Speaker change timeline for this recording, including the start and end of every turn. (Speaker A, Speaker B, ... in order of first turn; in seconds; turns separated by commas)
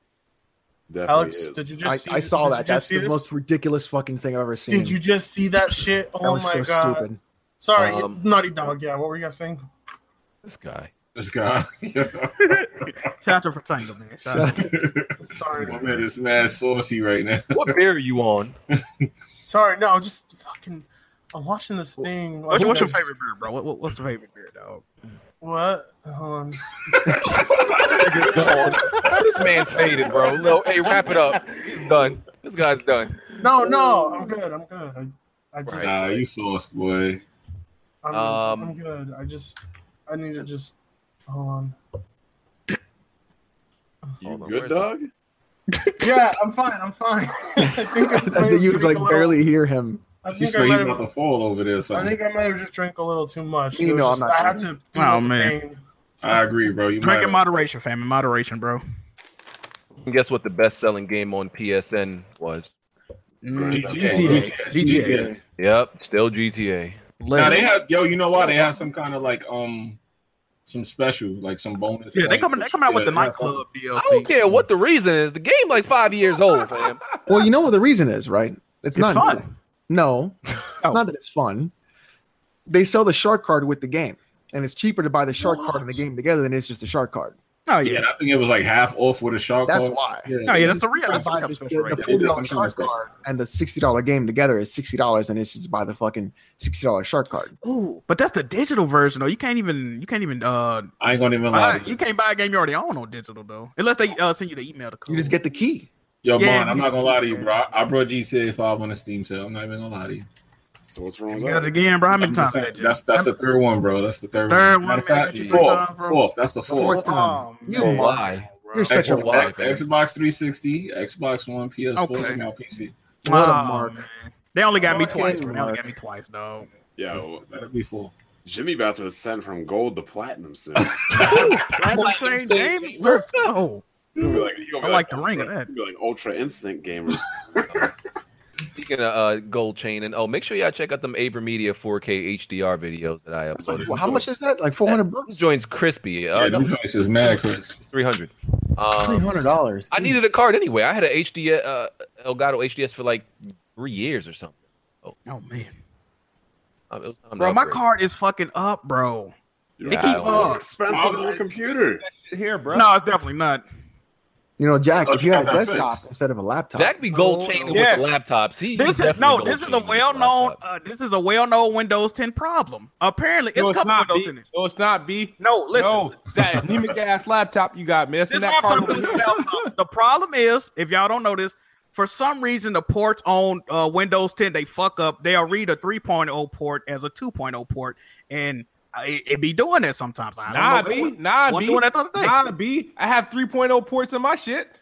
Speaker A: 0.9-1.7, Speaker B: 1.1-3.3, Speaker C: 1.8-5.0, Speaker B: 4.7-7.1, Speaker C: 6.2-7.2, Speaker B: 7.6-9.6, Speaker D: 7.8-8.2, Speaker D: 10.4-10.9, Speaker E: 11.2-12.9, Speaker F: 12.5-14.7, Speaker C: 14.3-14.6, Speaker E: 14.4-17.8, Speaker B: 15.2-16.1, Speaker D: 17.5-18.6, Speaker E: 18.7-19.1, Speaker B: 19.5-23.1, Speaker F: 22.5-24.8, Speaker B: 25.4-26.6, Speaker E: 26.9-29.1, Speaker D: 27.8-33.4, Speaker B: 33.4-36.3, Speaker D: 35.6-36.0, Speaker E: 35.8-37.2, Speaker B: 38.0-40.8, Speaker D: 38.1-38.8, Speaker B: 41.3-41.8, Speaker D: 44.2-44.9, Speaker A: 44.2-45.1, Speaker B: 46.0-49.4, Speaker C: 48.1-50.0, Speaker B: 50.2-51.1, Speaker E: 50.3-52.2, Speaker B: 51.9-56.3, Speaker C: 53.7-54.7, Speaker F: 54.9-55.6, Speaker E: 56.2-57.4, Speaker F: 57.0-58.8, Speaker D: 60.0-62.7, Speaker F: 63.4-65.3, Speaker A: 63.5-64.5, Speaker E: 63.7-65.4, Speaker C: 64.8-65.4, Speaker D: 65.6-67.0, Speaker C: 67.2-67.7, Speaker E: 67.3-70.0, Speaker E: 70.7-73.5, Speaker F: 72.1-74.3, Speaker C: 73.2-73.5, Speaker D: 74.0-77.0, Speaker G: 76.6-77.4, Speaker C: 77.3-81.7, Speaker F: 79.0-79.5, Speaker C: 82.7-87.4, Speaker F: 87.7-88.1, Speaker E: 87.8-91.3, Speaker C: 89.7-97.5, Speaker F: 90.4-92.3, Speaker E: 91.9-93.0, Speaker F: 97.6-100.9, Speaker E: 101.0-102.0, Speaker F: 101.5-105.3, Speaker C: 105.1-105.9, Speaker E: 106.2-110.3, Speaker F: 106.4-107.6, Speaker A: 110.9-111.8, Speaker F: 111.3-113.3, Speaker E: 112.1-117.0, Speaker F: 114.5-119.0, Speaker C: 116.7-119.5, Speaker D: 117.7-119.8, Speaker E: 118.9-122.9, Speaker F: 122.0-122.4, Speaker C: 123.2-124.0, Speaker F: 123.2-126.7, Speaker C: 124.8-125.9, Speaker A: 127.0-127.4, Speaker E: 127.1-128.1, Speaker A: 128.4-131.2, Speaker E: 130.8-132.9, Speaker F: 131.1-133.8, Speaker A: 134.2-137.3, Speaker E: 134.2-134.5, Speaker F: 134.8-135.7, Speaker D: 138.8-144.2, Speaker C: 143.6-145.5, Speaker E: 143.7-144.2, Speaker D: 144.9-146.8, Speaker E: 146.3-147.8, Speaker D: 147.8-149.3, Speaker C: 148.9-150.4, Speaker D: 149.9-155.2, Speaker F: 155.3-155.7, Speaker D: 156.9-157.8, Speaker F: 157.4-159.3, Speaker A: 159.8-162.0, Speaker F: 159.8-160.7, Speaker D: 159.9-160.6, Speaker E: 160.8-161.4, Speaker G: 161.1-161.4, Speaker G: 162.0-162.9, Speaker F: 162.7-163.6, Speaker C: 164.6-167.0, Speaker E: 165.0-166.0, Speaker D: 166.8-170.6, Speaker G: 167.1-168.1, Speaker F: 167.3-168.0, Speaker F: 168.8-174.5, Speaker G: 173.6-179.7, Speaker F: 175.4-176.2, Speaker F: 178.3-192.4, Speaker G: 190.5-194.7